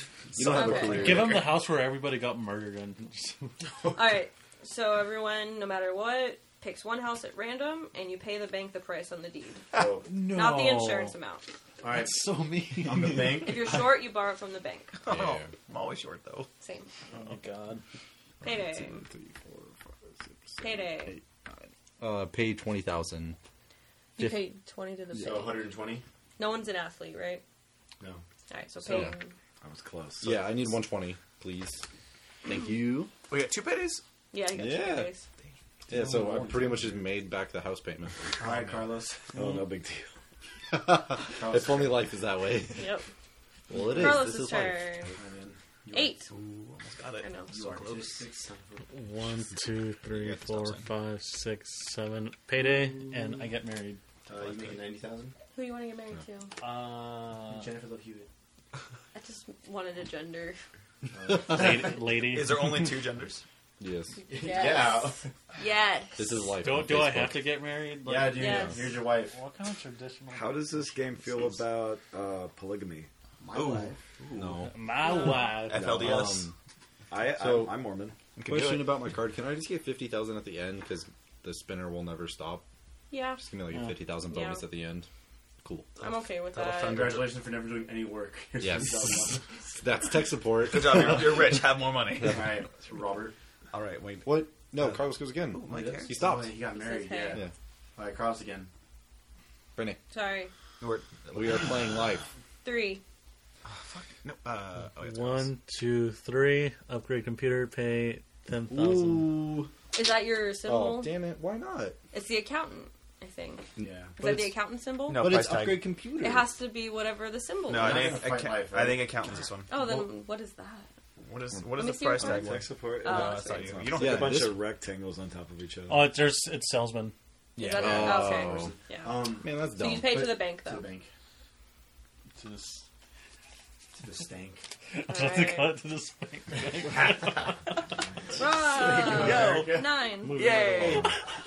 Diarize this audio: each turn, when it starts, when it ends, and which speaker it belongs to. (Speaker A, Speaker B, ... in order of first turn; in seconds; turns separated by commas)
Speaker A: 0.3-1.4, Speaker B: 0.4-1.6, Speaker C: 0.4-1.1, Speaker D: 0.5-1.3, Speaker E: 0.9-3.5, Speaker D: 3.9-9.7, Speaker C: 9.7-10.1, Speaker E: 10.0-11.2, Speaker D: 10.3-11.5, Speaker C: 11.8-12.2, Speaker E: 11.9-13.5, Speaker C: 12.8-13.8, Speaker D: 13.3-15.0, Speaker B: 15.0-16.5, Speaker A: 15.1-15.5, Speaker D: 16.6-16.9, Speaker E: 17.1-17.8, Speaker D: 18.4-19.0, Speaker A: 18.4-21.0, Speaker D: 20.6-21.2, Speaker A: 22.0-23.4, Speaker D: 24.2-25.7, Speaker A: 24.2-24.4, Speaker C: 25.1-26.0, Speaker D: 26.4-27.4, Speaker D: 28.5-29.3, Speaker A: 28.9-29.1, Speaker F: 29.6-30.7, Speaker A: 30.2-31.8, Speaker A: 32.5-33.1, Speaker B: 33.3-34.0, Speaker D: 34.3-35.3, Speaker A: 34.5-35.1, Speaker A: 35.9-38.5, Speaker E: 36.2-36.8, Speaker C: 38.4-39.4, Speaker F: 39.3-40.1, Speaker A: 40.7-42.9, Speaker C: 41.3-42.1, Speaker D: 42.8-43.1, Speaker A: 43.7-44.9, Speaker D: 43.8-45.2, Speaker C: 45.1-46.2, Speaker D: 45.9-46.3, Speaker B: 46.3-48.2, Speaker D: 47.2-47.5, Speaker C: 47.5-49.3, Speaker E: 48.9-54.0, Speaker B: 50.1-50.9, Speaker C: 54.3-55.3, Speaker B: 54.4-54.8, Speaker D: 55.5-56.5, Speaker E: 56.6-57.7, Speaker C: 57.5-58.3, Speaker D: 59.1-60.6, Speaker C: 61.1-62.0, Speaker E: 61.3-63.0, Speaker B: 62.2-63.4, Speaker A: 63.8-64.2, Speaker D: 64.2-66.5, Speaker C: 64.3-65.3, Speaker A: 66.2-67.5, Speaker E: 66.6-71.2, Speaker C: 68.0-69.4, Speaker D: 68.3-69.0, Speaker F: 70.3-73.1, Speaker C: 73.4-74.0, Speaker B: 73.5-73.9, Speaker A: 74.3-74.7, Speaker E: 74.6-76.0, Speaker D: 75.0-75.6, Speaker B: 75.6-76.5, Speaker F: 75.8-76.2, Speaker A: 75.8-76.5, Speaker F: 77.1-78.2, Speaker A: 77.2-77.9, Speaker B: 78.4-79.0, Speaker A: 78.5-82.6, Speaker D: 83.1-83.4, Speaker A: 83.4-85.1, Speaker E: 83.7-84.0, Speaker D: 84.3-84.7, Speaker A: 85.6-85.9, Speaker D: 86.0-87.2, Speaker B: 86.0-87.3, Speaker C: 86.6-89.8, Speaker A: 88.6-91.6, Speaker B: 90.6-92.5, Speaker C: 92.2-93.3, Speaker B: 93.7-96.2, Speaker A: 94.2-96.6, Speaker C: 95.7-97.5, Speaker D: 96.7-97.4, Speaker C: 98.0-98.7, Speaker D: 100.1-100.5, Speaker B: 100.8-102.0, Speaker A: 101.3-102.3, Speaker D: 102.6-103.0, Speaker B: 103.7-105.5, Speaker E: 104.9-109.4, Speaker A: 108.7-109.7, Speaker D: 109.9-111.2, Speaker A: 110.7-112.0, Speaker D: 112.1-115.3, Speaker A: 113.8-114.5, Speaker C: 113.8-114.1, Speaker B: 115.1-115.9, Speaker A: 115.2-116.5, Speaker D: 116.2-118.2, Speaker B: 117.7-119.7, Speaker C: 117.7-119.2, Speaker D: 119.7-120.9, Speaker B: 121.2-124.5, Speaker D: 121.8-123.8, Speaker F: 122.2-126.2, Speaker A: 124.0-124.7, Speaker E: 125.9-127.2, Speaker A: 127.6-128.7, Speaker D: 127.6-130.9, Speaker C: 127.8-131.1, Speaker A: 129.3-130.4, Speaker E: 132.4-132.8, Speaker C: 134.0-134.6, Speaker E: 134.9-137.8, Speaker D: 135.1-135.8, Speaker D: 138.4-141.1, Speaker C: 138.4-139.9, Speaker B: 139.1-141.2, Speaker E: 140.2-141.1